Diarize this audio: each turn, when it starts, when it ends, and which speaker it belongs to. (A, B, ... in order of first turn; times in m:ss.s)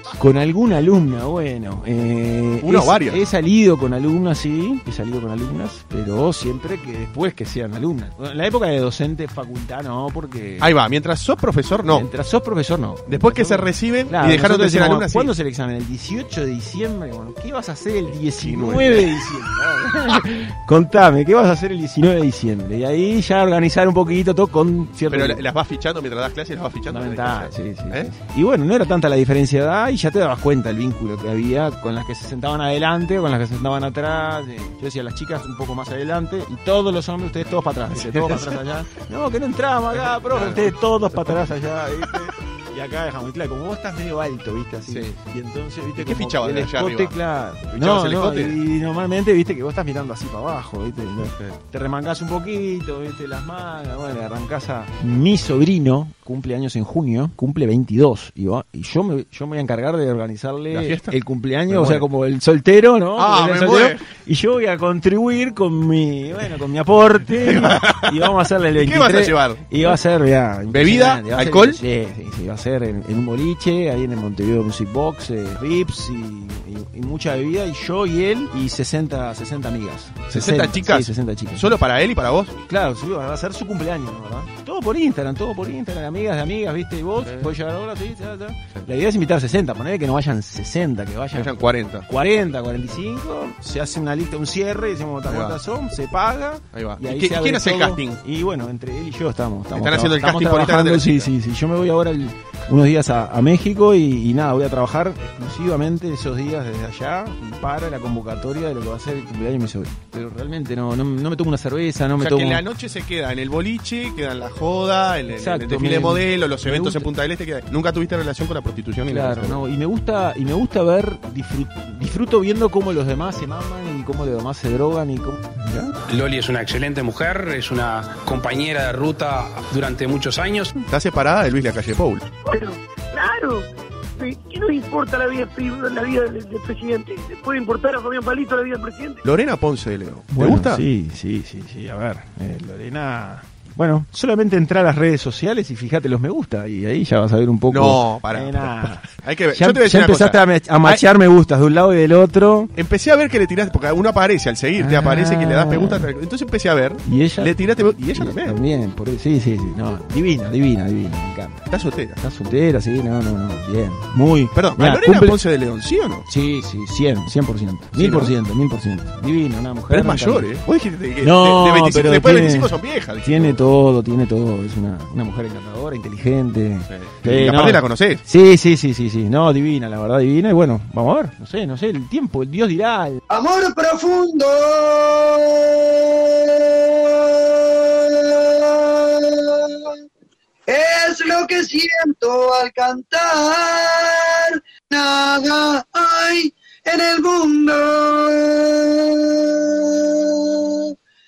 0:00.2-0:10.7 A
0:02.6-0:03.2 B
0:10.6-0:12.1 B
0:11.9-0:25.4 A
0:13.0-0:15.3 B
0:18.3-0:19.2 B
0:25.1-0:28.1 B
0:26.9-1:21.7 A
0:37.9-0:38.6 B
0:39.9-0:42.2 B
0:44.8-0:45.1 B
0:46.0-0:48.6 B
0:51.2-0:51.5 B
1:00.7-1:02.1 B
1:03.1-1:04.1 B
1:07.4-1:10.0 B
1:10.7-1:11.8 B
1:20.3-1:22.6 B
1:22.7-1:52.6 A
1:27.2-1:27.6 B
1:31.3-1:32.1 B
1:35.2-1:35.6 B
1:36.7-1:38.2 B
1:39.7-1:41.3 B
1:52.2-1:59.6 B
1:55.3-1:57.1 A
1:59.1-2:05.5 A
2:06.1-2:10.7 C
2:10.9-2:12.2 B
2:12.5-2:13.6 D
2:14.2-2:19.2 D
2:19.2-2:20.8 B
2:20.3-2:32.7 A
2:27.7-2:31.0 B
2:32.7-2:38.6 B
2:34.8-2:36.1 A
2:37.0-2:37.5 A
2:38.1-2:41.7 A
2:41.7-2:42.2 B
2:42.2-2:45.4 A
2:44.5-2:46.2 B
2:46.3-2:50.5 A
2:47.9-2:48.3 B
2:49.9-2:53.6 B
2:51.2-3:03.2 A
2:56.9-2:58.2 B
3:03.3-3:09.9 E
3:10.7-3:20.9 E